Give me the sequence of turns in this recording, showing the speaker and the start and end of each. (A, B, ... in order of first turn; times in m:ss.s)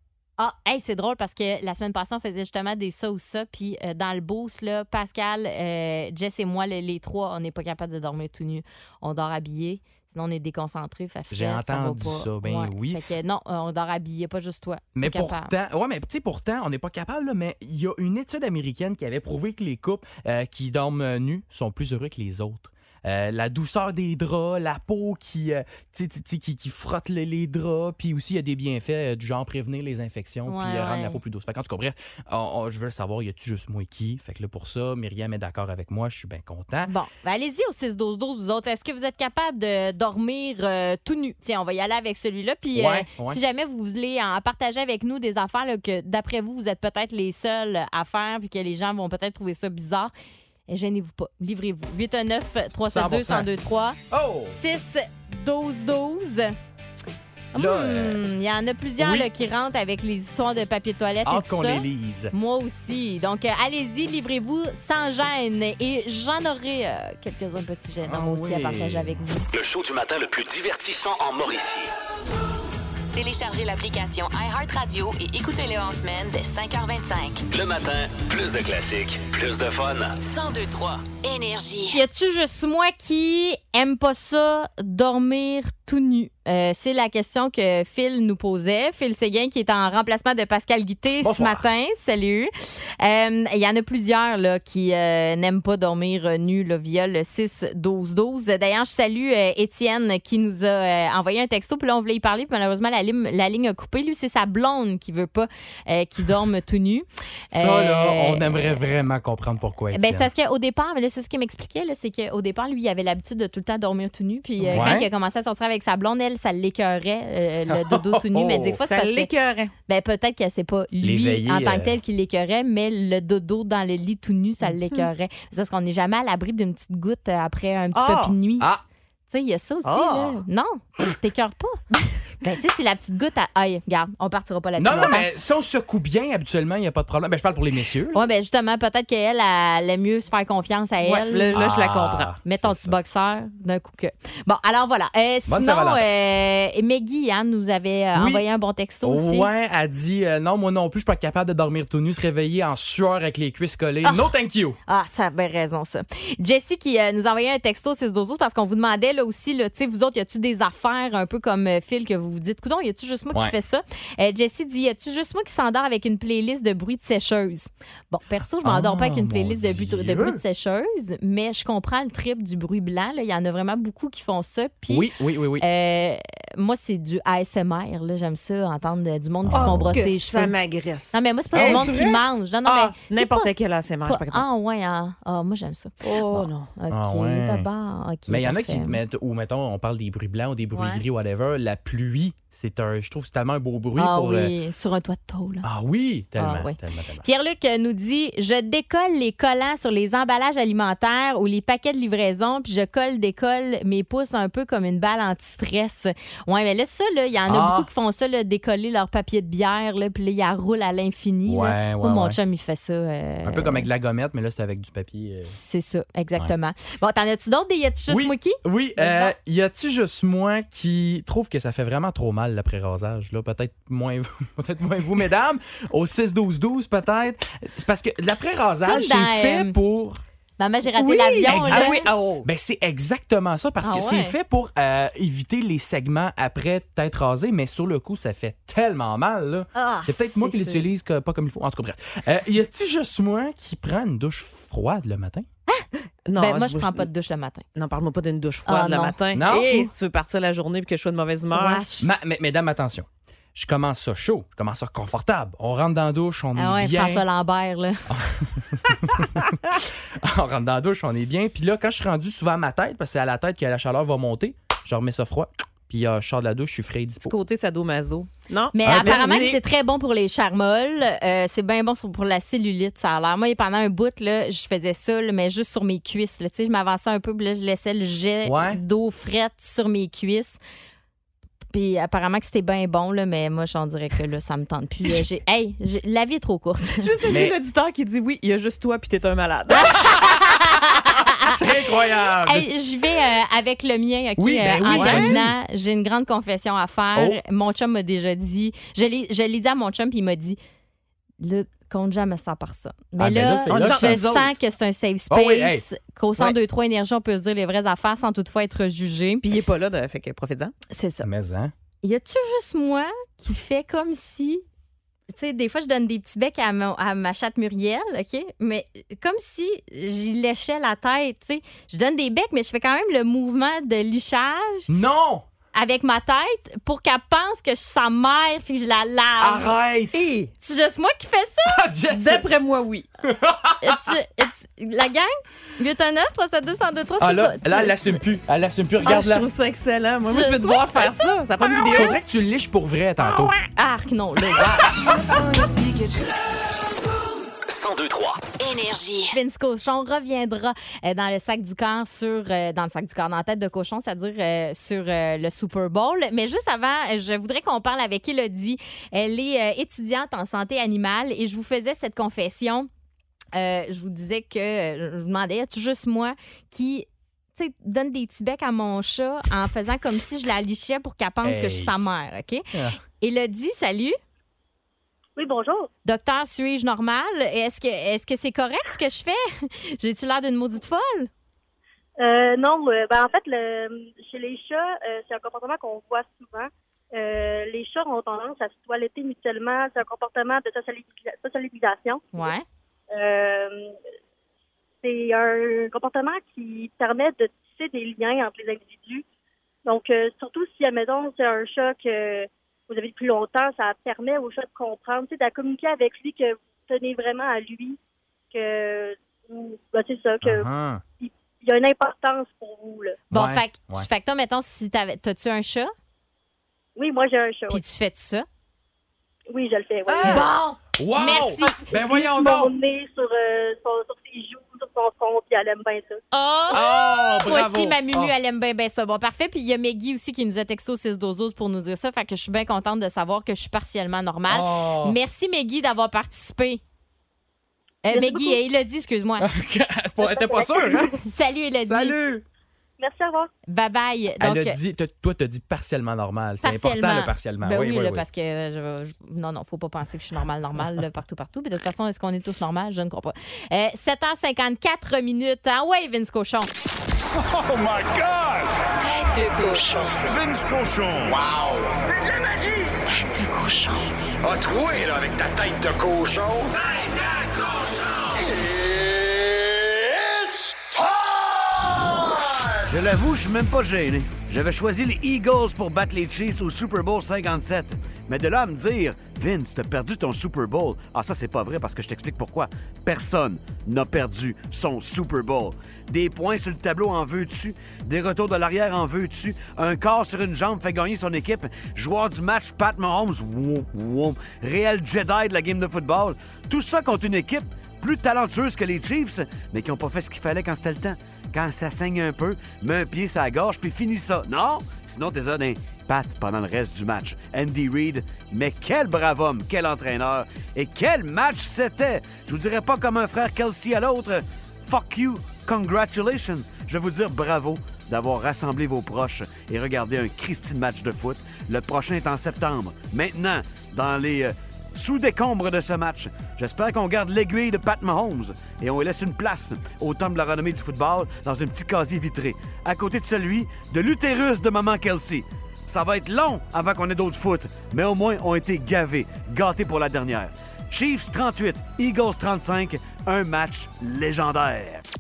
0:00.4-0:15.5 A
0:11.3-0:13.0 B
0:15.0-0:36.9 B
0:30.5-0:31.2 A
0:36.9-0:50.1 A
0:42.8-0:43.4 B
0:50.7-0:54.0 A
0:52.9-0:53.5 B
0:54.1-0:54.6 B
0:54.5-0:56.6 A
0:57.5-1:09.5 A
0:57.6-0:58.2 B
0:59.0-0:59.3 B
1:01.2-1:02.3 B
1:08.1-1:09.2 B
1:09.5-1:11.9 C
1:13.1-1:17.4 D
1:17.5-1:20.2 C
1:20.2-1:22.0 D
1:21.9-1:48.8 A
1:31.2-1:31.6 B
1:47.5-1:50.3 B
1:49.9-1:59.3 A
1:54.6-1:55.1 B
1:57.7-1:58.8 B
1:58.6-1:59.7 E
1:59.9-2:08.7 A
2:01.0-2:02.0 B
2:04.7-2:05.0 E
2:07.9-2:08.3 E
2:09.3-2:11.8 A
2:09.8-2:10.4 E
2:12.4-2:15.3 A
2:14.8-2:18.2 B
2:18.1-2:21.5 A
2:21.0-2:22.3 E
2:21.5-2:23.0 B
2:22.4-2:29.5 A
2:25.5-2:26.0 B
2:28.1-2:28.4 B
2:29.0-2:34.8 B
2:34.9-2:55.1 A
2:48.6-2:50.4 B
2:54.9-2:55.6 B
2:55.6-3:00.6 A
2:59.5-3:00.0 B
2:59.5-3:04.4 E
3:01.1-3:03.5 A
3:01.5-3:02.0 B
3:04.1-3:05.9 A
3:06.0-3:06.7 E
3:06.3-3:07.7 B
3:06.8-3:09.0 A
3:08.3-3:14.5 B
3:10.7-3:11.0 A
3:14.0-3:15.7 A
3:15.6-3:17.2 B
3:16.4-3:33.9 A
3:27.5-3:27.9 B
3:31.5-3:32.4 B
3:33.4-3:35.5 B
3:35.4-3:39.3 A
3:38.1-3:50.2 B
3:48.8-3:49.7 A
3:50.6-3:52.1 A
3:51.0-3:52.5 E
3:51.5-4:05.5 B
3:53.8-3:54.3 A
3:59.8-4:00.9 A
4:06.3-4:07.1 E
4:06.4-4:07.6 A
4:07.8-4:11.8 E
4:08.7-4:09.9 A
4:09.3-4:09.7 B
4:11.5-4:12.1 A
4:12.0-4:17.2 B
4:16.6-4:18.0 A
4:18.1-4:27.3 B
4:27.2-4:29.6 E
4:28.7-4:40.6 A
4:28.8-4:29.6 B
4:38.4-4:38.8 B
4:41.7-4:47.1 A
4:47.0-4:49.9 E
4:47.3-4:47.6 B
4:49.8-4:51.6 A
4:51.4-4:52.7 B
4:52.4-5:00.6 A
4:54.4-4:55.5 B
4:54.9-4:55.4 E
5:01.4-5:09.4 A
5:03.2-5:04.4 B
5:03.7-5:04.5 E
5:05.3-5:05.8 B
5:09.4-5:10.7 E
5:10.9-5:11.3 A
5:11.2-5:11.7 B
5:12.0-5:14.6 A
5:15.3-5:24.9 A
5:24.9-5:25.4 B
5:25.7-5:29.7 A
5:29.4-5:30.1 B
5:30.1-5:30.5 E
5:30.6-5:31.8 A
5:31.7-5:32.5 B
5:32.1-5:33.1 E
5:33.3-5:34.1 B
5:33.8-5:38.2 A
5:37.2-5:39.5 B
5:39.0-5:42.1 E
5:40.2-5:42.1 A
5:41.9-5:43.6 B
5:43.2-5:45.1 A
5:44.6-5:44.9 B
5:47.7-5:48.5 C
5:48.6-5:49.4 D
5:49.3-6:02.9 A
6:03.6-6:12.7 A
6:11.4-6:12.1 B
6:13.2-6:14.2 A
6:15.4-6:15.9 F
6:16.1-6:21.3 A
6:22.2-6:32.5 F
6:32.3-6:32.6 A
6:33.1-6:33.9 F
6:35.0-6:39.2 F
6:39.9-6:48.0 F
6:48.5-6:50.7 F
6:50.4-6:51.0 B
6:51.2-6:53.2 F
6:53.3-6:55.9 A
6:53.3-6:54.1 B
6:57.0-6:57.8 F
6:57.7-6:58.4 A
6:59.5-7:00.4 F
7:00.1-7:02.7 B
7:00.2-7:01.8 A
7:01.9-7:06.2 F
7:06.3-7:16.8 A
7:06.7-7:08.3 B
7:14.5-7:15.2 B
7:18.0-7:19.4 A
7:18.1-7:18.5 F
7:19.4-7:21.1 B
7:20.2-7:21.1 F
7:21.2-7:22.2 A
7:21.8-7:22.4 B
7:23.0-7:23.5 F
7:23.7-7:24.8 A
7:24.4-7:28.2 B
7:26.6-7:36.7 A
7:37.5-7:38.7 G
7:39.0-7:40.1 D
7:40.3-7:42.7 G
7:43.3-7:44.0 D
7:44.4-7:49.6 G
7:50.3-7:51.0 G
7:52.9-9:05.0 H